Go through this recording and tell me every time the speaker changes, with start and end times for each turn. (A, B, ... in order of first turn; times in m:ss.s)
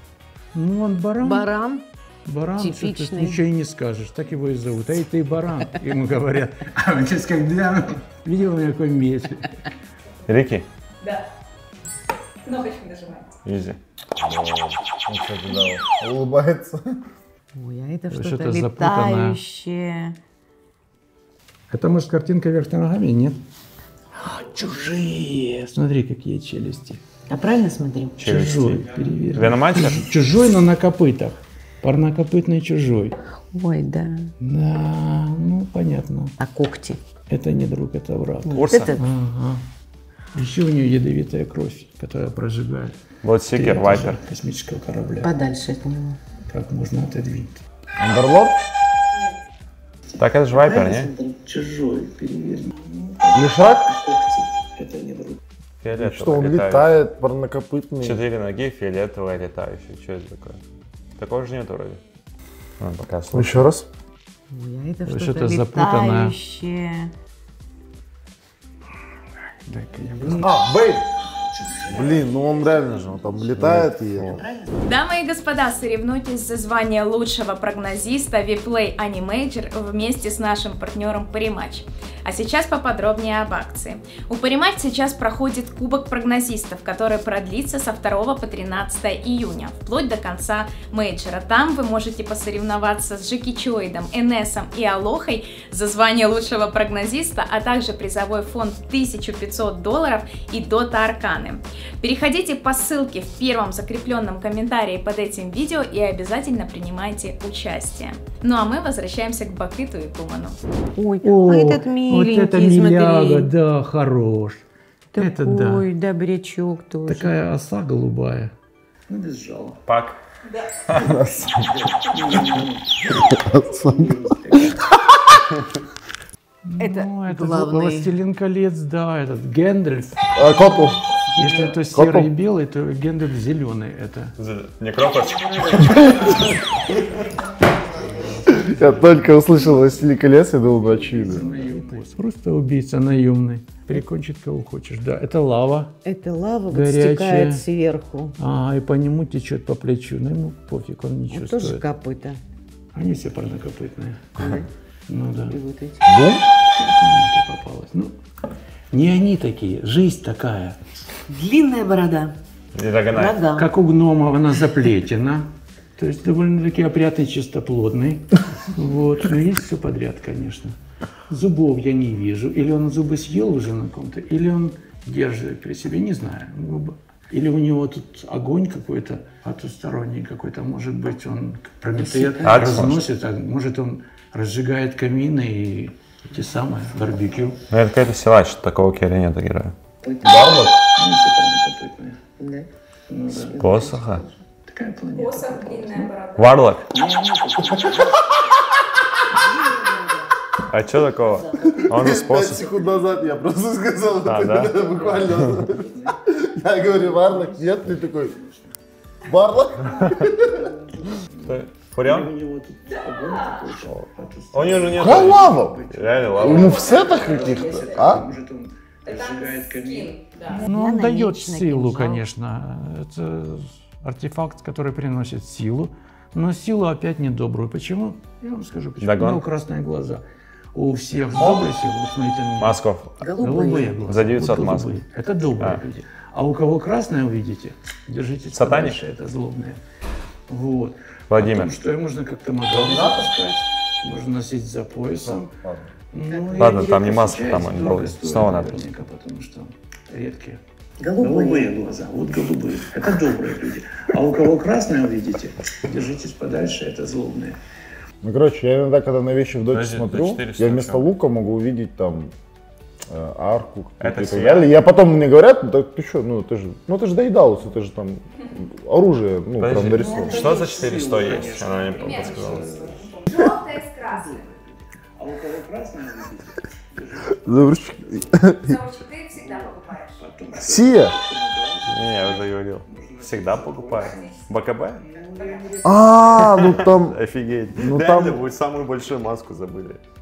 0:00.5-0:01.5 A
0:01.2-0:01.8 B
0:02.2-0:09.6 A
0:02.6-0:03.4 B
0:10.3-0:10.7 C
0:12.4-0:13.3 D
0:13.4-0:14.7 C
0:15.1-0:16.9 E
0:17.6-0:20.2 B
0:18.1-0:19.4 A
0:21.7-0:23.4 A
0:24.2-0:27.0 A
0:27.3-0:28.2 B
0:28.2-0:28.8 C
0:28.2-0:33.2 A
0:29.3-0:30.0 C
0:33.5-0:34.3 B
0:34.4-0:36.3 A
0:36.4-0:37.0 B
0:37.3-0:39.6 A
0:38.5-0:39.0 B
0:38.5-0:38.9 C
0:40.3-0:43.0 A
0:43.2-0:44.2 C
0:43.5-0:45.3 A
0:45.2-0:46.2 B
0:46.5-0:47.6 A
0:48.0-0:48.6 E
0:50.2-0:51.1 C
0:50.5-0:51.4 B
0:51.4-0:53.5 A
0:53.3-0:54.0 E
0:54.0-0:55.4 A
0:55.8-0:56.9 C
0:56.0-0:58.2 E
0:58.0-1:00.6 C
1:01.2-1:02.0 C
1:02.8-1:03.7 C
1:03.3-1:03.8 E
1:04.5-1:07.1 B
1:05.0-1:06.4 A
1:09.6-1:10.6 A
1:10.3-1:11.0 E
1:11.6-1:12.0 A
1:11.8-1:14.4 E
1:14.2-1:14.7 B
1:14.8-1:50.6 D
1:51.0-1:53.5 B
1:51.2-1:54.6 A
1:55.1-1:57.3 B
1:55.2-1:55.9 A
1:57.0-1:58.5 A
1:59.1-1:59.8 A
1:59.9-2:00.2 C
2:00.9-2:01.2 C
2:01.0-2:01.6 E
2:01.8-2:03.0 A
2:03.1-2:04.8 E
2:03.7-2:04.8 A
2:06.6-2:10.2 A
2:06.8-2:08.1 B
2:10.4-2:11.0 E
2:11.3-2:14.4 A
2:11.4-2:11.6 B
2:11.8-2:12.3 E
2:14.4-2:16.0 C
2:15.6-2:16.0 B
2:15.8-2:16.5 E
2:17.7-2:19.4 A
2:18.5-2:21.5 E
2:21.0-2:26.0 A
2:26.0-2:28.4 B
2:26.7-2:27.6 A
2:28.4-2:31.8 A
2:31.3-2:32.4 B
2:32.9-2:34.4 A
2:34.4-2:34.7 B
2:35.1-2:35.6 A
2:35.5-2:36.1 B
2:36.0-2:36.4 E
2:36.7-2:38.1 A
2:38.9-2:40.8 A
2:41.3-2:42.4 B
2:42.7-2:43.4 C
2:43.1-2:43.7 B
2:43.5-2:50.7 A
2:51.3-3:07.6 A
3:02.0-3:02.7 B
3:02.4-3:03.0 C
3:07.7-3:09.7 C
3:10.0-3:10.7 B
3:10.2-3:10.8 E
3:10.9-3:12.2 A
3:12.4-3:12.7 B
3:13.1-3:13.6 A
3:13.3-3:14.3 B
3:13.6-3:14.2 C
3:14.7-3:16.1 A
3:15.1-3:16.5 D
3:16.4-3:16.8 C
3:16.9-3:18.2 A
3:17.7-3:18.4 E
3:19.3-3:20.3 B
3:20.7-3:22.7 C
3:21.2-3:22.9 B
3:21.6-3:28.4 E
3:24.2-3:25.6 C
3:24.8-3:26.2 A
3:26.8-3:28.8 A
3:29.3-3:30.6 E
3:30.3-3:52.8 A
3:31.4-3:32.3 C
3:34.5-3:36.7 C
3:34.9-3:35.8 E
3:36.4-3:38.3 E
3:36.6-3:37.9 D
3:39.1-3:40.6 D
3:40.6-3:42.3 B
3:49.0-3:49.4 C
3:51.3-3:51.7 C
3:52.6-3:53.2 C
3:53.2-3:54.0 B
3:53.4-3:59.8 A
3:54.0-3:55.0 C
3:58.5-3:59.0 C
4:00.5-4:05.5 A
4:01.3-4:01.7 C
4:02.7-4:03.3 E
4:05.2-4:05.9 E
4:06.1-4:10.6 A
4:06.5-4:08.8 C
4:11.0-4:11.7 B
4:11.2-4:17.6 A
4:18.2-4:22.3 E
4:19.7-4:21.1 C
4:23.1-4:30.6 E
4:24.0-4:24.7 C
4:29.6-4:32.7 C
4:29.9-4:30.6 B
4:30.0-4:38.3 A
4:31.2-4:34.4 D
4:37.4-4:38.8 E
4:38.6-4:40.2 D
4:39.3-4:46.5 A
4:40.6-4:41.2 E
4:41.9-4:45.0 C
4:45.8-4:47.2 E
4:46.4-4:50.0 C
4:47.8-4:48.4 E